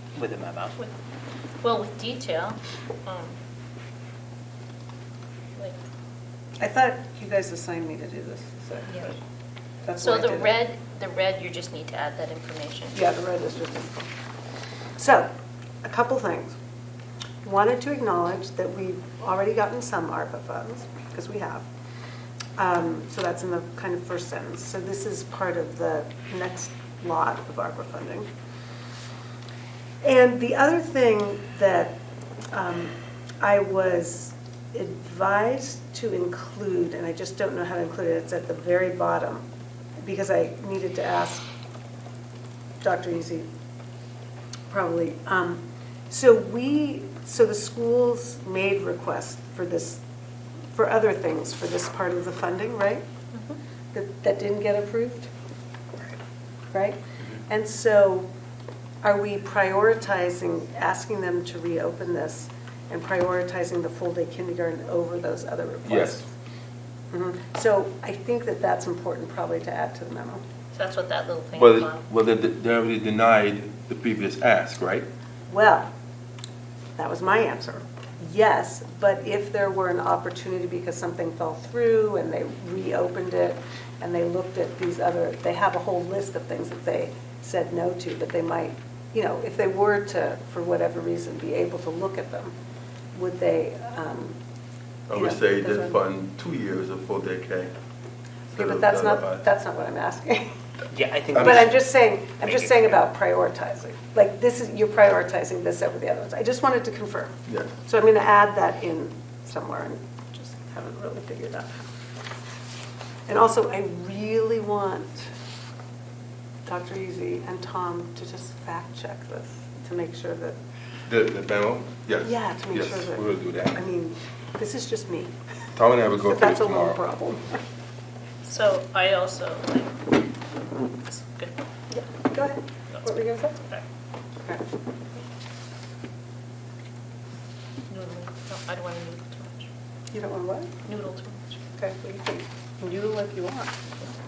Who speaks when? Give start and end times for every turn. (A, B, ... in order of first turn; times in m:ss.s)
0:00.2-0:00.8 A
0:01.6-0:03.3 B
0:06.6-0:09.2 C
0:09.8-0:10.5 C
0:10.0-0:13.0 B
0:12.9-0:14.1 C
0:15.0-0:15.3 C
0:15.8-0:16.6 C
0:17.4-0:21.7 C
0:22.6-0:28.3 C
0:30.0-0:32.0 C
0:32.5-0:39.4 C
0:40.0-0:41.5 C
0:42.8-0:43.5 C
0:44.7-0:50.0 C
0:50.7-0:53.0 C
0:53.9-0:55.3 C
0:56.7-0:58.3 C
0:59.0-1:06.3 C
1:05.8-1:06.2 D
1:07.1-1:10.4 C
1:10.7-1:12.1 B
1:11.5-1:15.1 D
1:15.5-1:15.9 C
1:17.0-1:32.5 C
1:33.1-1:34.4 C
1:35.1-1:37.7 D
1:35.1-1:36.0 C
1:38.5-1:40.5 C
1:38.5-1:39.4 D
1:40.9-1:41.8 A
1:41.4-1:51.8 C
1:42.4-1:43.0 A
1:47.5-1:47.7 D
1:53.3-1:55.3 C
1:56.7-2:00.6 C
2:01.1-2:03.8 D
2:02.2-2:05.3 C
2:05.7-2:07.0 D
2:06.2-2:07.6 C
2:08.4-2:10.2 B
2:10.8-2:11.6 B
2:11.9-2:13.6 C
2:17.9-2:19.7 B
2:20.1-2:20.8 C
2:20.8-2:21.6 B
2:21.8-2:23.7 C